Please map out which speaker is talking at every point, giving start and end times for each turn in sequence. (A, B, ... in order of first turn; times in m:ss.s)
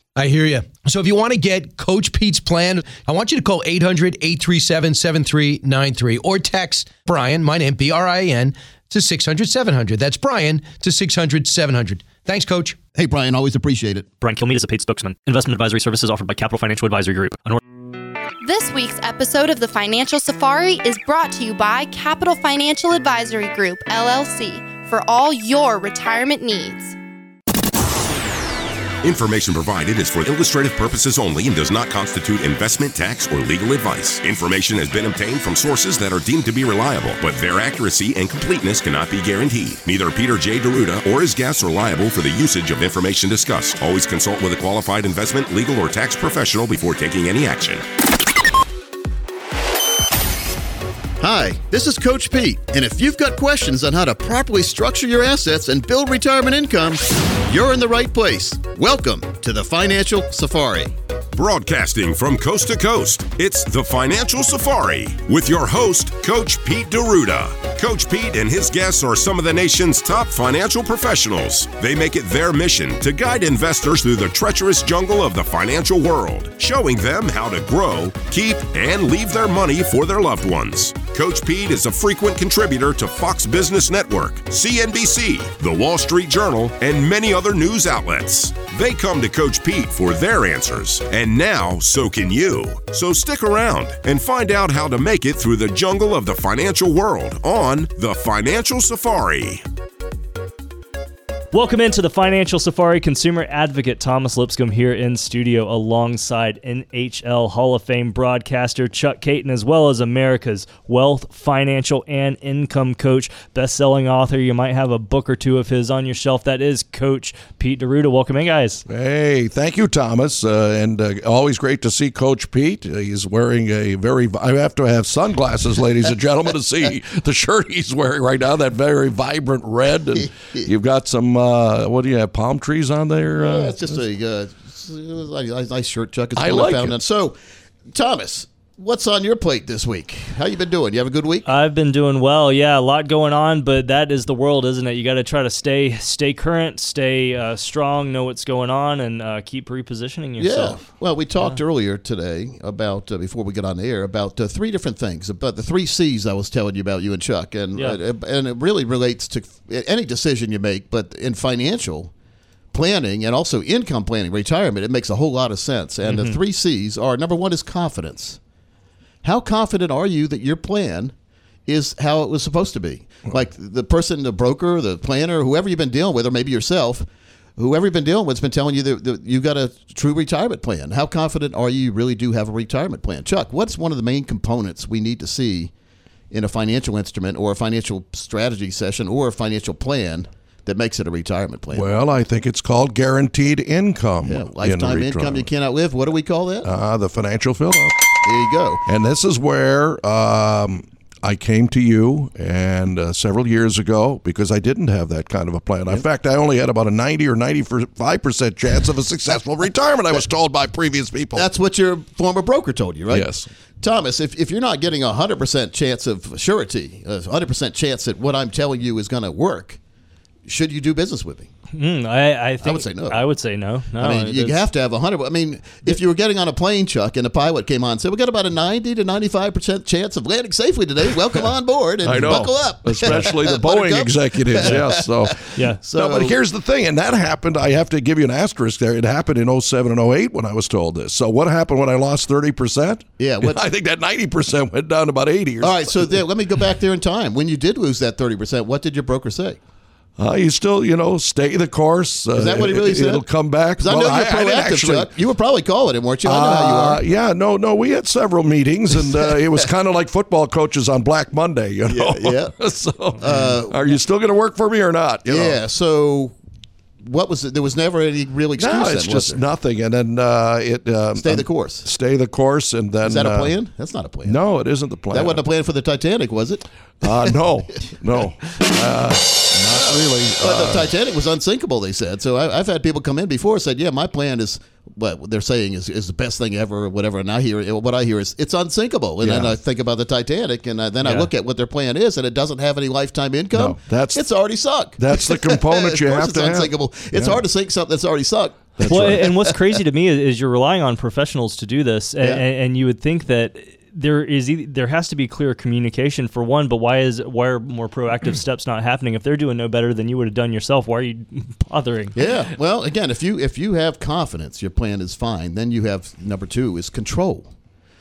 0:00.2-0:12.8 A
0:13.0-0:14.1 B
0:14.2-0:17.6 C
0:18.4-0:27.0 D
0:29.0-0:47.9 E
0:51.2-1:00.9 B
1:01.4-1:39.6 E
1:41.5-1:58.8 C
1:58.9-2:14.0 F
2:13.4-2:17.4 B
2:16.4-2:17.0 F
2:17.9-2:21.5 B
2:21.5-2:30.9 C
2:30.4-2:42.1 B
2:42.7-2:48.4 B
2:46.1-2:46.4 C
2:49.2-2:51.1 B
2:51.7-3:05.7 B
3:06.3-3:11.9 B
3:11.7-3:15.5 F
3:14.2-3:16.7 B
3:16.6-3:18.0 F
3:18.2-3:18.8 B
3:18.9-3:31.5 F
3:31.4-3:33.3 B
3:33.1-3:33.5 F
3:33.8-3:39.8 B
3:40.5-3:41.5 B
3:41.7-3:44.6 C
3:42.6-3:43.2 B
3:44.0-3:55.3 B
3:52.0-4:06.1 F
3:54.6-3:54.9 C
3:55.5-3:55.8 C
3:55.8-3:56.4 B
4:03.2-4:03.6 B
4:05.6-4:09.6 B
4:10.2-4:15.1 F
4:12.4-4:13.2 B
4:13.8-4:17.0 B
4:16.2-4:25.6 F
4:21.9-4:22.6 B
4:23.2-4:23.9 B
4:25.3-4:26.4 B
4:27.0-4:29.4 B
4:28.6-4:33.6 F
4:31.2-4:31.9 B
4:33.0-4:34.4 B
4:34.2-4:35.4 F
4:35.1-4:36.6 B
4:37.0-4:40.9 F
4:40.4-4:59.3 B
4:49.2-4:49.6 F
4:53.5-4:54.2 F
4:55.0-4:57.4 F
4:58.8-4:59.3 F
4:58.9-5:12.2 C
5:12.2-5:17.5 B